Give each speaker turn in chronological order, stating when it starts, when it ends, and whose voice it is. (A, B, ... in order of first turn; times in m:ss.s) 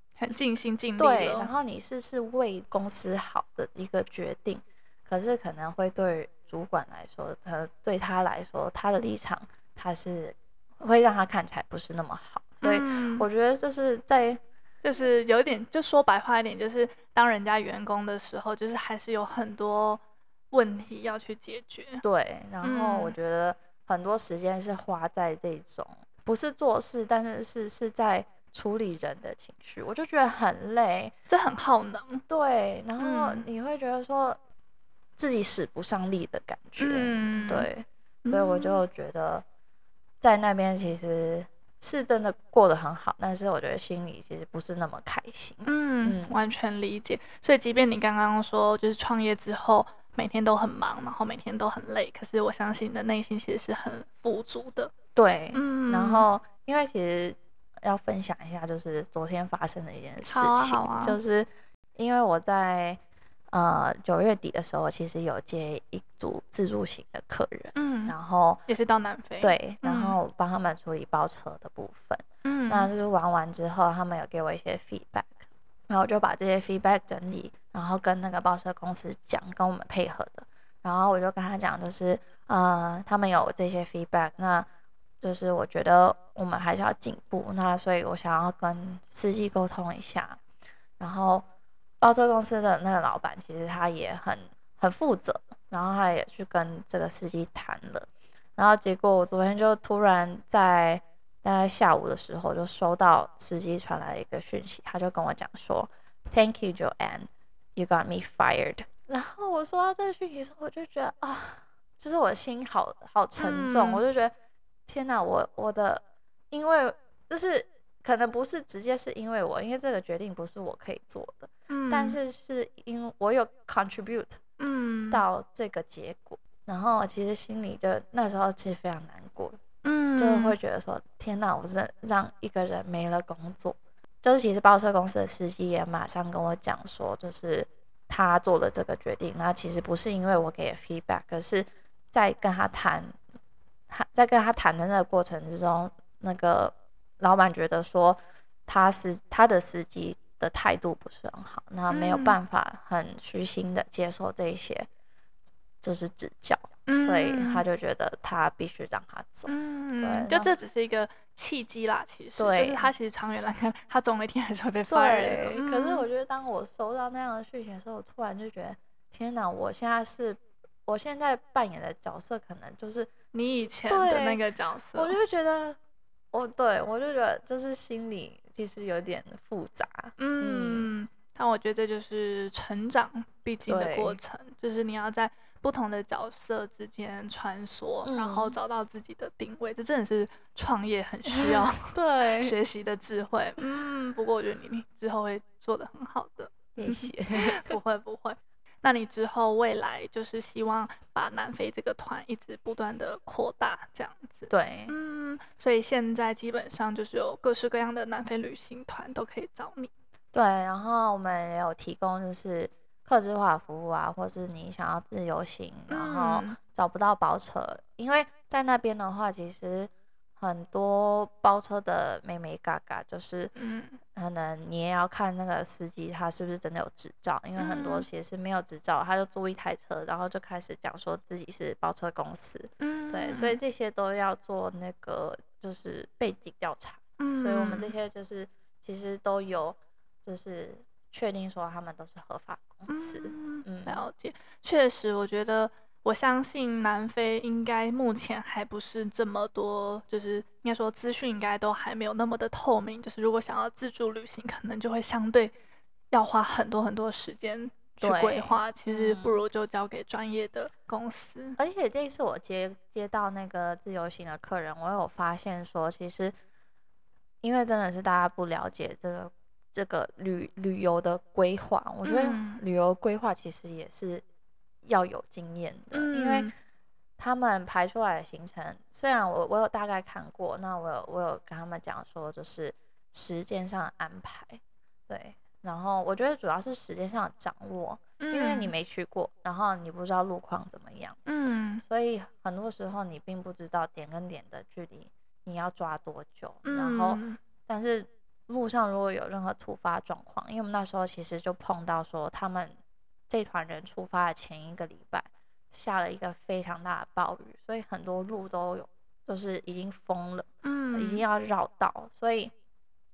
0:00.2-0:01.5 A
0:01.0-0:14.4 B
0:12.6-0:13.3 A
0:14.8-0:22.0 A
0:22.0-0:31.1 B
0:22.6-0:23.2 A
0:31.3-0:32.2 A
0:32.3-0:34.4 B
0:33.0-0:33.4 A
0:35.2-0:39.4 B
0:36.8-0:37.7 A
0:38.2-0:38.8 A
0:40.2-0:46.4 B
0:45.6-0:54.9 A
0:55.1-1:03.0 B
0:55.5-0:56.3 A
1:00.2-1:01.2 A
1:03.5-1:08.6 B
1:07.8-1:08.2 A
1:08.7-1:10.2 A
1:09.4-1:24.7 B
1:12.4-1:12.9 A
1:25.2-1:30.4 B
1:31.0-1:31.4 B
1:32.0-1:54.3 B
1:53.4-1:54.0 A
1:54.9-2:04.4 B
2:01.7-2:02.2 A
2:04.6-2:05.2 A
2:05.1-2:09.6 B
2:09.8-2:10.6 A
2:10.2-2:23.2 B
2:23.9-2:34.9 B
2:31.9-2:32.4 A
2:35.8-2:40.5 B
2:36.9-2:37.6 A
2:39.5-2:46.1 A
2:42.4-2:42.9 B
2:44.9-2:54.4 B
2:53.3-2:55.2 A
2:54.9-2:55.8 B
2:56.3-3:00.9 B
3:00.2-3:29.9 A
3:03.6-3:04.2 B
3:08.0-3:08.6 B
3:11.3-3:12.6 B
3:16.8-3:17.6 B
3:24.5-3:24.9 B
3:30.3-3:43.5 B
3:35.9-3:36.6 A
3:43.6-3:44.0 A
3:44.1-4:04.0 B
3:47.6-3:48.1 A
3:52.8-3:53.6 A
3:57.2-3:57.9 A
4:02.9-4:15.5 A
4:16.1-4:21.6 A
4:18.0-4:19.4 B
4:21.6-4:26.3 B
4:27.4-4:34.2 B
4:32.0-4:32.6 A
4:34.8-4:36.5 B
4:35.9-4:36.5 A
4:37.2-4:51.2 B
4:48.2-4:48.7 A
4:51.3-4:51.8 A
4:51.8-5:02.8 B
4:56.6-4:57.4 A
5:03.3-5:12.5 B
5:10.6-5:11.2 A